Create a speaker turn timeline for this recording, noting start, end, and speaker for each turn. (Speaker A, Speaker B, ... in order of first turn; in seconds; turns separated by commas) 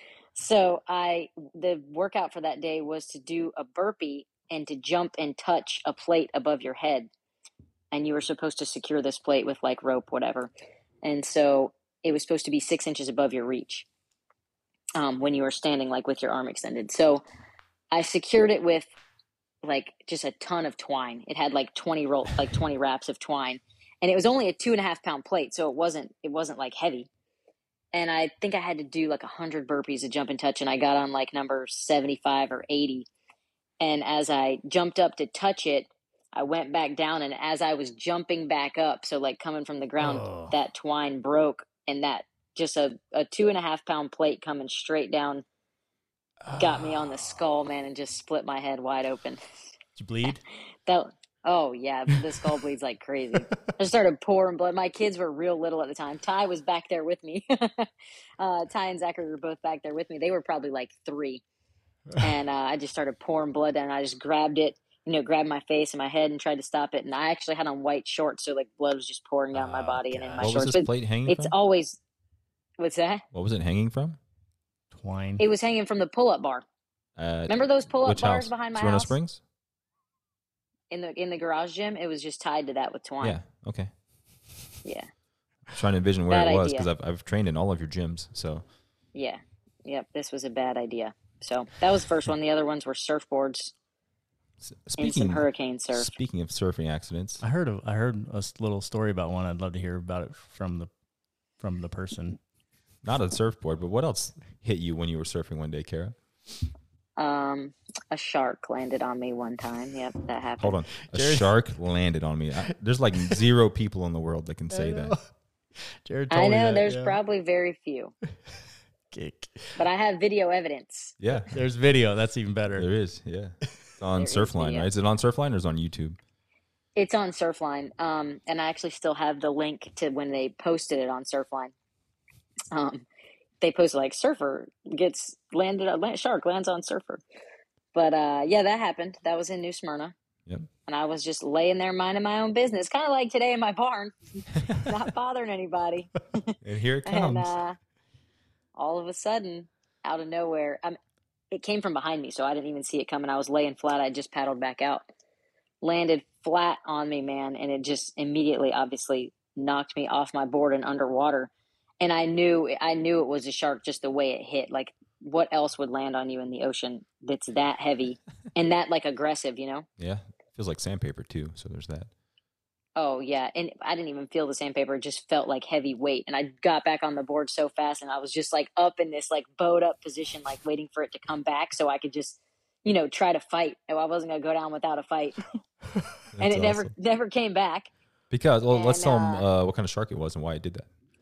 Speaker A: 0.3-7.1, Speaker A: 7.9-10.5, Speaker A: 11.0-13.8, Speaker A: 14.9-17.2, Speaker A: 17.9-18.9, Speaker A: 19.6-27.1, Speaker A: 27.9-33.1, Speaker A: 33.8-45.4, Speaker B: 40.0-40.5, Speaker B: 46.4-47.4, Speaker A: 46.6-49.4, Speaker B: 50.0-50.4, Speaker A: 50.9-57.9, Speaker B: 52.1-52.5, Speaker B: 53.3-53.7, Speaker A: 58.4-61.4, Speaker A: 62.2-72.0, Speaker B: 69.5-70.6, Speaker C: 70.4-71.5, Speaker A: 72.8-73.2, Speaker C: 73.3-74.2, Speaker B: 74.9-75.4, Speaker A: 75.4-76.6, Speaker C: 77.2-79.4, Speaker A: 77.5-79.2, Speaker A: 80.9-83.4, Speaker C: 83.2-83.9, Speaker C: 85.7-88.6, Speaker A: 86.3-86.9, Speaker A: 89.1-93.7, Speaker C: 94.6-97.4, Speaker A: 95.0-96.1, Speaker B: 97.4-100.9, Speaker B: 101.6-102.4, Speaker C: 103.0-106.2, Speaker A: 107.2-110.8, Speaker C: 110.6-115.2, Speaker B: 111.1-111.5, Speaker B: 114.7-115.3, Speaker B: 115.8-117.2, Speaker A: 116.3-118.1, Speaker B: 119.1-119.8, Speaker A: 119.8-121.1, Speaker C: 121.2-121.5, Speaker B: 121.5-122.9, Speaker C: 122.7-126.2, Speaker A: 124.2-124.9, Speaker A: 127.0-131.7, Speaker A: 132.7-133.0, Speaker A: 133.6-137.2, Speaker A: 137.9-140.1, Speaker A: 140.9-147.8, Speaker C: 146.6-147.5, Speaker A: 148.7-151.0, Speaker A: 151.5-155.0, Speaker A: 155.8-169.8, Speaker C: 170.0-172.1, Speaker A: 172.9-185.5, Speaker C: 186.3-186.9, Speaker A: 186.4-187.9, Speaker C: 188.3-190.9, Speaker A: 188.7-189.4